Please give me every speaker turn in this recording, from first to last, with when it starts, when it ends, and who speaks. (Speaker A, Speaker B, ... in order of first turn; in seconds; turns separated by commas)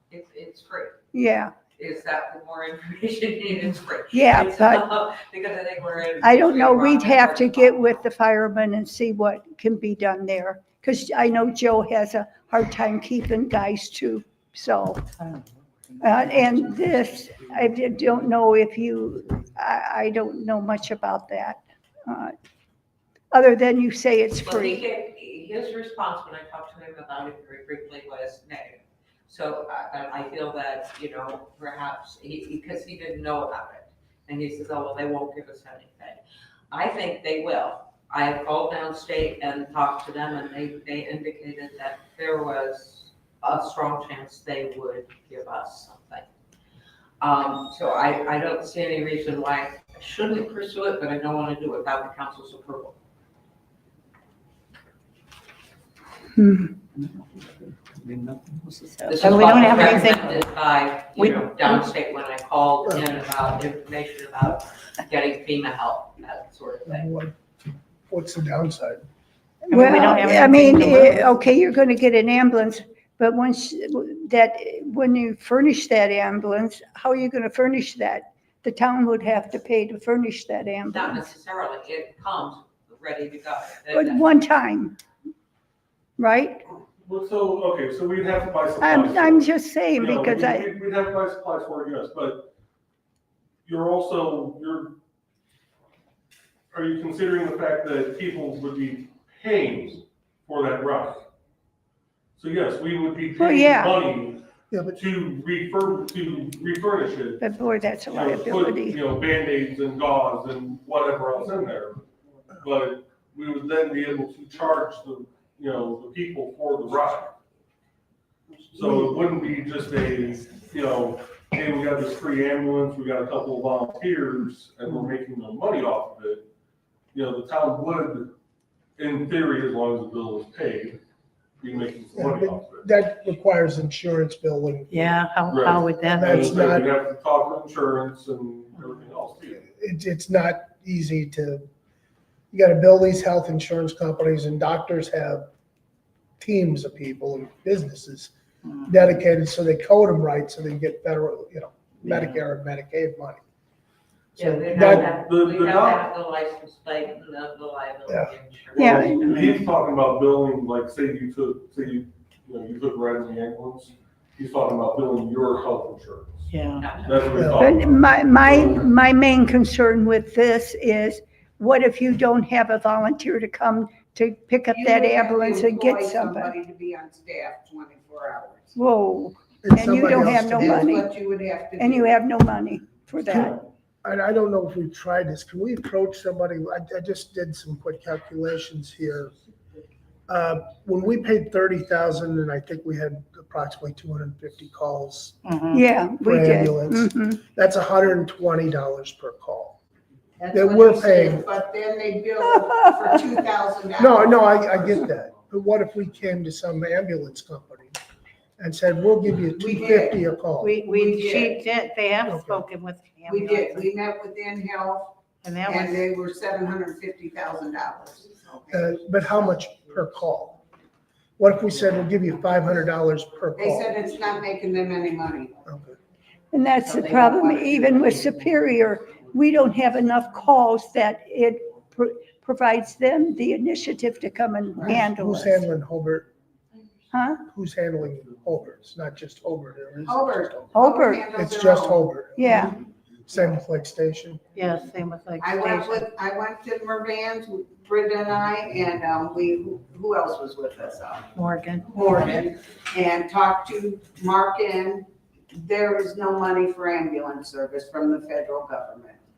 Speaker A: 0.1-1.0, Speaker B: 1.1-1.5, Speaker A: 1.7-8.0, Speaker B: 4.1-4.8, Speaker B: 6.2-15.1, Speaker B: 16.0-22.3, Speaker B: 23.3-24.9, Speaker A: 24.4-36.2, Speaker A: 36.7-46.3, Speaker A: 47.2-53.0, Speaker B: 56.4-56.7, Speaker C: 58.1-60.3, Speaker A: 59.0-67.1, Speaker D: 66.9-67.3, Speaker D: 68.1-69.0, Speaker B: 69.7-81.3, Speaker C: 69.7-71.4, Speaker A: 80.9-84.3, Speaker B: 83.9-85.0, Speaker B: 86.2-86.6, Speaker E: 87.0-92.5, Speaker B: 88.8-90.7, Speaker E: 93.6-95.0, Speaker E: 96.7-101.3, Speaker E: 102.4-107.4, Speaker B: 103.3-104.0, Speaker D: 104.7-105.0, Speaker B: 107.4-109.0, Speaker E: 108.1-117.4, Speaker E: 118.7-126.5, Speaker E: 127.1-128.3, Speaker E: 128.9-131.0, Speaker E: 131.6-132.9, Speaker D: 132.1-135.2, Speaker C: 134.9-136.6, Speaker E: 135.4-139.7, Speaker D: 136.1-136.9, Speaker D: 139.6-141.7, Speaker D: 142.5-145.5, Speaker D: 146.4-153.4, Speaker D: 154.4-155.1, Speaker A: 154.4-159.5, Speaker E: 154.7-156.0, Speaker D: 158.1-158.3, Speaker B: 158.8-159.6, Speaker E: 158.8-166.5, Speaker C: 166.5-166.8, Speaker A: 166.8-167.6, Speaker E: 167.0-168.9, Speaker D: 167.3-167.7, Speaker B: 167.5-176.5, Speaker F: 174.7-178.8, Speaker B: 178.8-181.1, Speaker D: 179.6-180.9, Speaker F: 180.0-182.2, Speaker B: 181.8-183.6, Speaker D: 184.0-189.3, Speaker D: 190.3-195.4, Speaker C: 195.4-195.8, Speaker B: 195.7-197.4, Speaker D: 196.2-199.8, Speaker F: 200.4-204.8, Speaker D: 200.5-201.5, Speaker D: 204.0-208.0, Speaker D: 208.6-210.8, Speaker F: 209.6-210.2, Speaker C: 210.6-213.9, Speaker F: 210.9-211.6, Speaker D: 212.2-212.6, Speaker F: 213.3-218.8, Speaker C: 215.4-216.1, Speaker D: 218.7-220.6, Speaker D: 221.4-224.0, Speaker F: 223.6-225.6, Speaker D: 225.7-226.0, Speaker B: 226.5-235.7, Speaker F: 226.8-228.4, Speaker F: 234.8-235.0, Speaker D: 234.9-236.3, Speaker B: 237.1-237.4, Speaker D: 237.4-240.8, Speaker F: 240.1-242.1, Speaker B: 240.7-241.3, Speaker D: 241.3-242.7, Speaker B: 242.4-242.8, Speaker D: 243.2-244.4, Speaker C: 244.5-246.0, Speaker F: 245.4-251.3, Speaker C: 251.3-252.1, Speaker F: 251.9-259.2